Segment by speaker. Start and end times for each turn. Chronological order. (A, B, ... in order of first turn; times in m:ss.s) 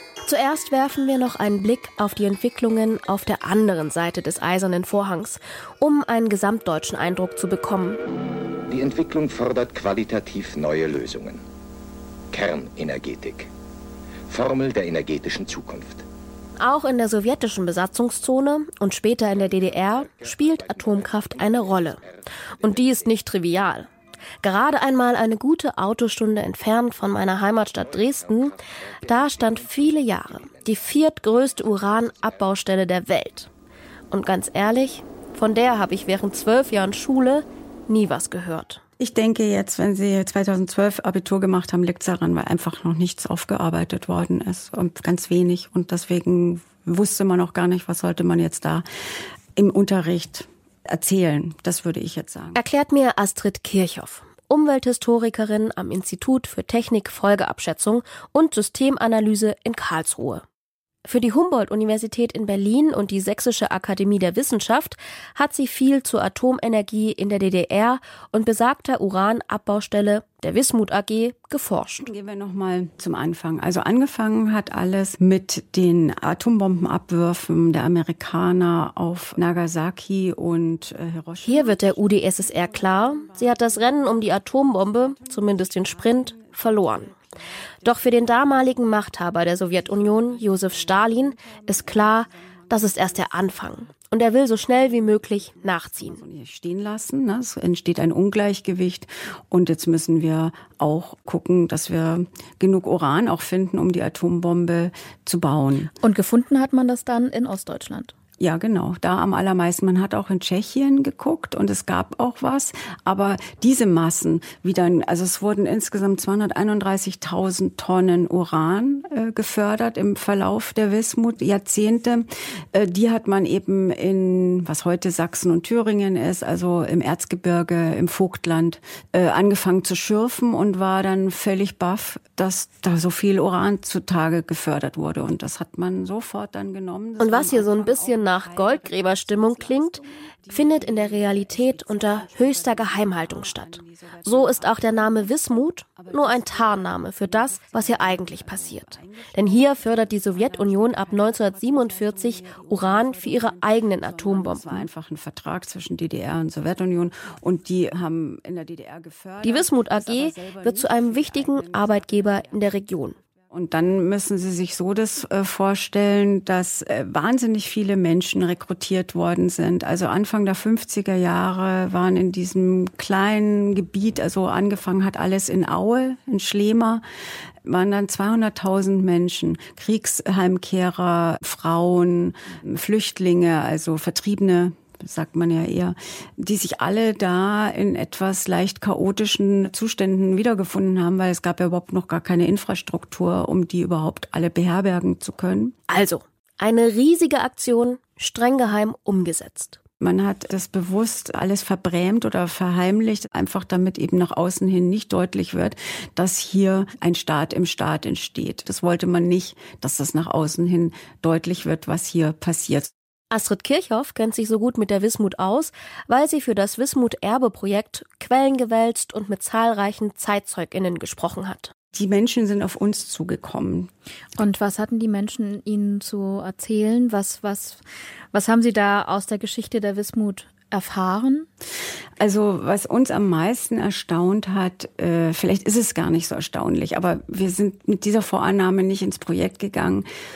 0:00.2-0:08.0 A
0:08.7-0:11.4 B
0:12.3-0:13.5 B
0:14.3-0:16.0 B
0:16.6-0:22.0 A
0:19.3-0:23.1 B
0:22.6-0:23.9 A
0:24.4-0:33.5 A
0:27.7-0:30.9 B
0:31.4-0:32.5 B
0:34.1-0:38.8 A
0:39.0-0:48.8 C
0:49.6-0:52.6 C
0:52.5-1:00.4 A
1:01.0-1:12.1 A
1:12.0-1:33.9 C
1:21.4-1:27.1 A
1:27.8-1:36.2 A
1:34.7-1:45.9 C
1:46.0-1:48.1 D
1:48.4-2:25.3 C
2:17.2-2:34.9 A
2:26.0-2:57.0 C
2:39.4-2:43.2 A
2:57.6-3:15.7 C
3:15.9-3:19.8 A
3:20.0-3:32.9 C
3:33.3-3:41.7 A
3:41.9-3:43.9 C
3:44.4-3:47.8 D
3:48.3-3:51.5 D
3:52.2-4:00.0 C